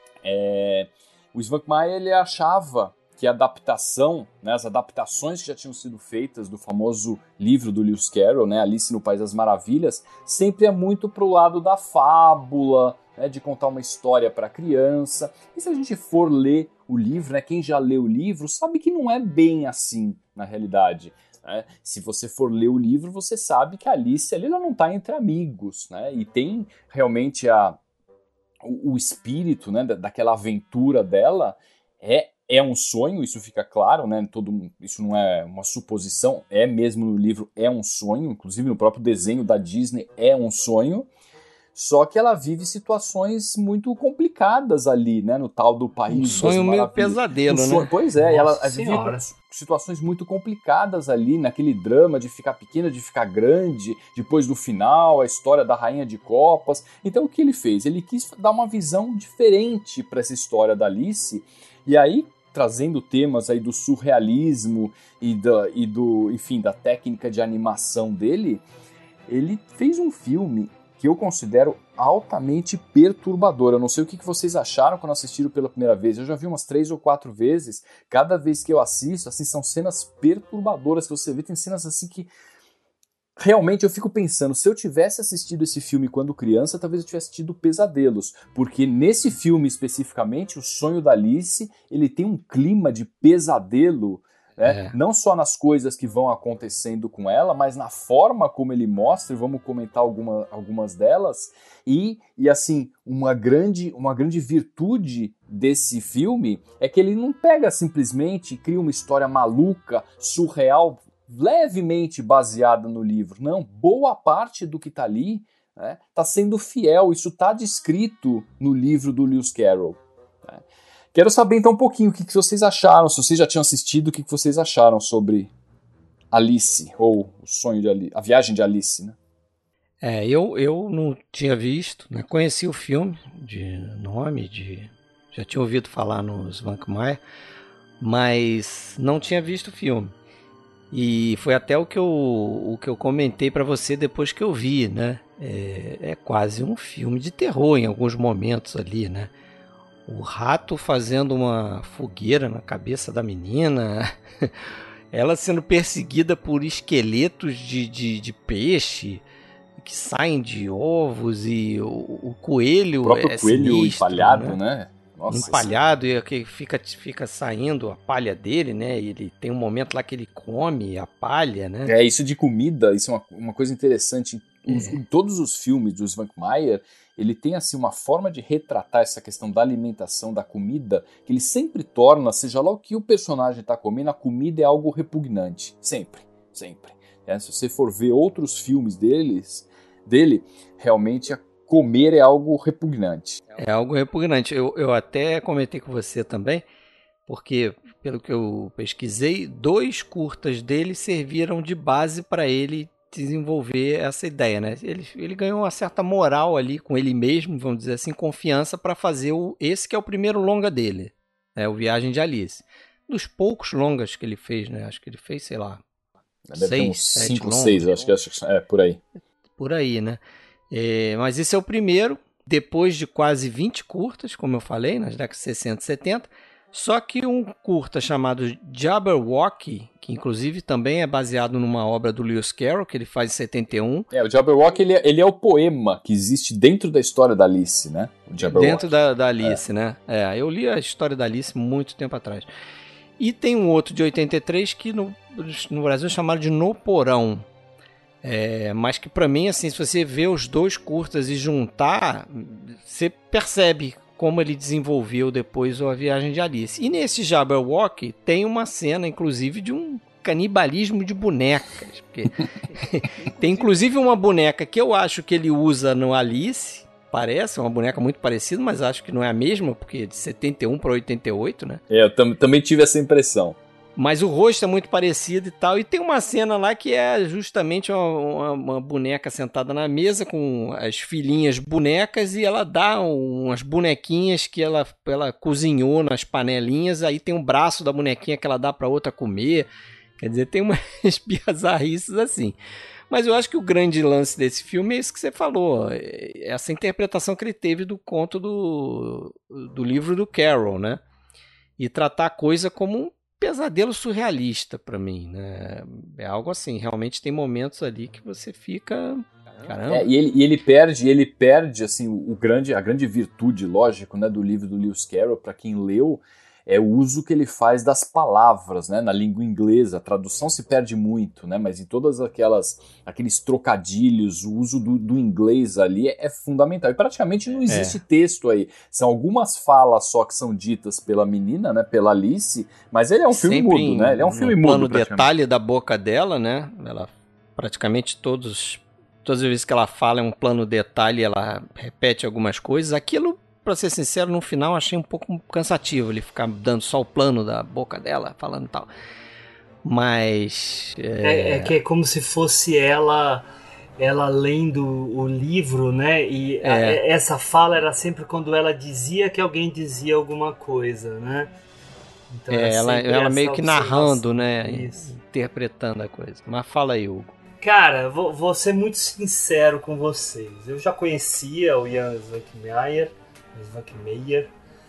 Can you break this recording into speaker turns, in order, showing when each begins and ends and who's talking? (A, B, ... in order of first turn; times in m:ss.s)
0:00.2-0:27.8 A
0:28.6-0:41.1 A
0:41.8-1:08.6 A
0:46.1-0:47.9 B
0:48.2-0:49.2 C
1:09.3-1:22.3 A
1:23.4-2:00.6 A
1:34.6-1:35.0 B
2:01.1-2:05.5 A
2:06.3-2:09.2 A
2:10.0-2:17.2 B
2:18.0-2:20.1 B
2:20.9-2:29.3 B
2:30.1-2:34.6 B
2:35.1-2:39.2 B
2:39.8-2:44.6 B
2:43.0-2:45.7 A
2:45.3-2:51.9 B
2:51.8-3:13.4 A
2:54.7-2:55.0 B
3:13.6-3:16.6 B
3:17.3-3:35.8 B
3:36.5-3:39.0 A
3:36.6-3:38.0 B
3:39.6-3:40.2 B
3:40.7-3:54.1 B
3:54.1-3:59.6 A
3:58.4-4:02.5 B
4:03.2-4:07.4 B
4:08.2-4:31.8 B
4:23.2-4:23.6 A
4:31.9-4:33.6 A
4:34.0-4:49.7 B
4:50.2-4:52.6 B
4:53.1-5:01.0 B
5:01.8-5:10.1 B
5:09.9-5:35.3 A
5:27.7-5:28.0 B
5:33.3-5:48.9 B
5:49.8-5:51.8 B
5:51.2-5:53.5 C
5:54.0-6:01.5 C
5:56.6-5:57.0 B
6:02.3-6:05.1 C
6:02.5-6:07.3 B
6:07.6-6:14.5 C